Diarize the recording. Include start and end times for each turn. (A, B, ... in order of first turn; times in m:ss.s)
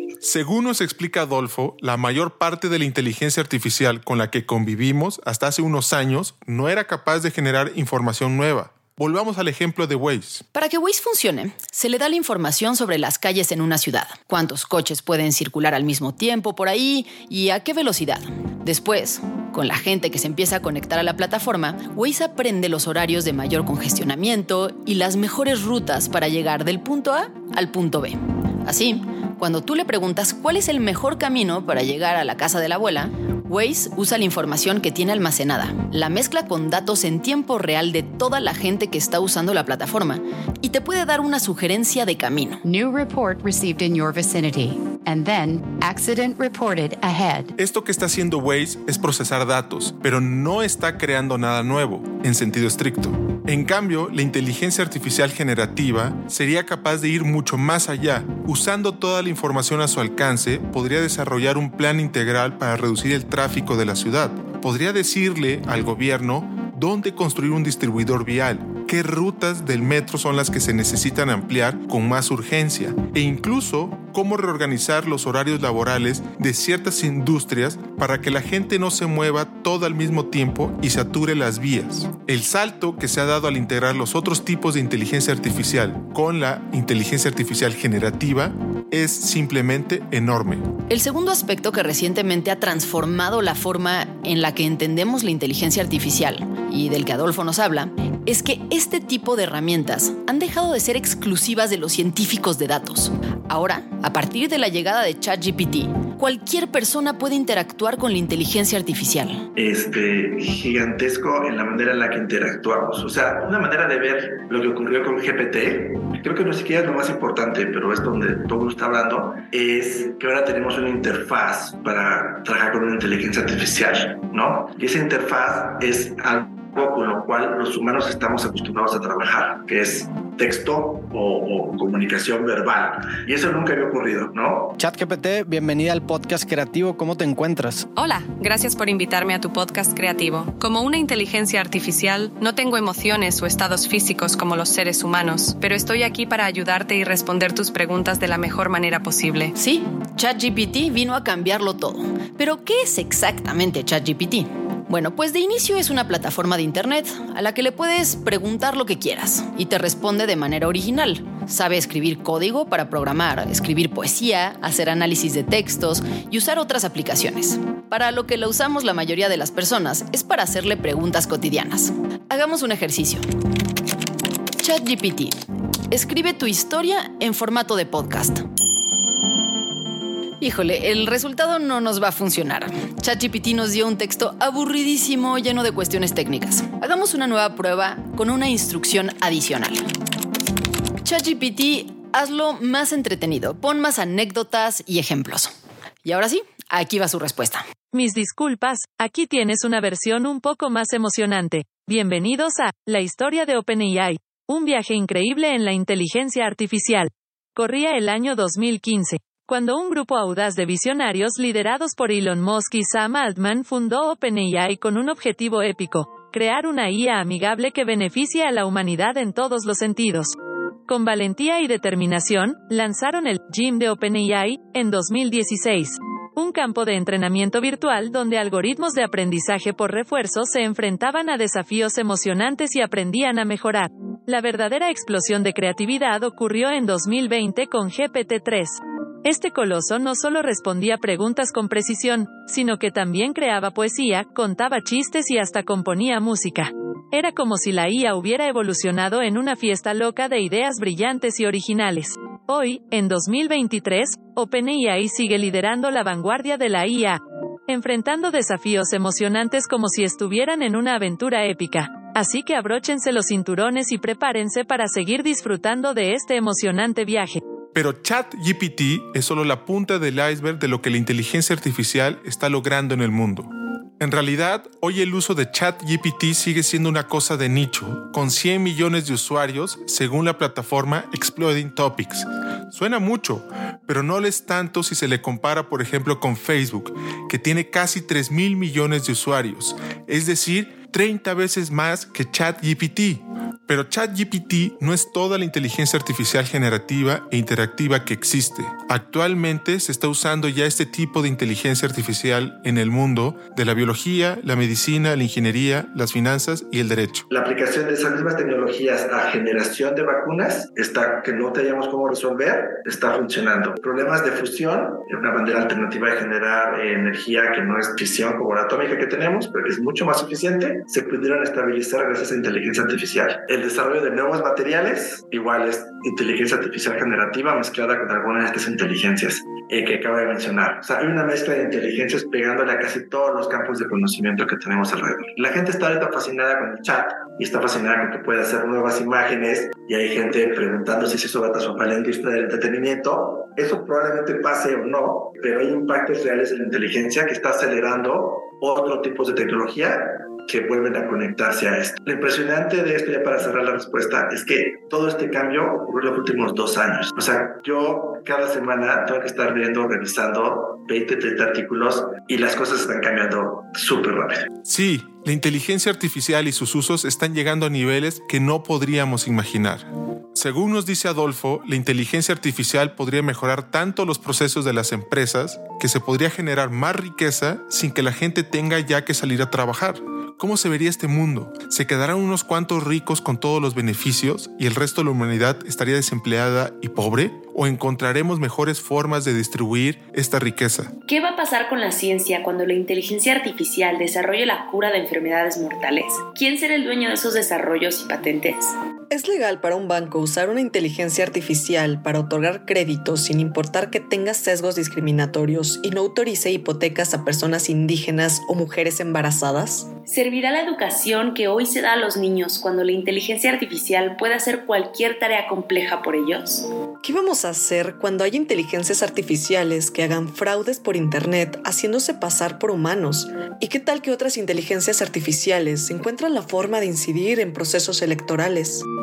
0:00.2-0:10.4 A
0:10.5-0:42.6 B
0:42.6-0:47.5 C
0:47.6-1:30.7 A
1:30.9-1:49.4 B
1:49.6-2:14.8 D
2:14.8-2:17.9 E
2:17.9-2:29.5 F
2:29.6-2:53.2 B
2:54.6-2:55.4 B
2:55.9-2:58.4 B
3:00.4-3:09.9 B
3:11.0-3:15.5 B
3:16.0-3:17.6 B
3:17.9-3:40.4 G
3:40.9-4:27.4 G
4:27.7-5:07.3 A
5:07.3-6:04.5 D
6:04.6-6:30.9 A
6:31.1-6:38.7 H
6:39.1-6:49.9 I
6:50.1-6:56.7 H
6:57.0-7:08.8 I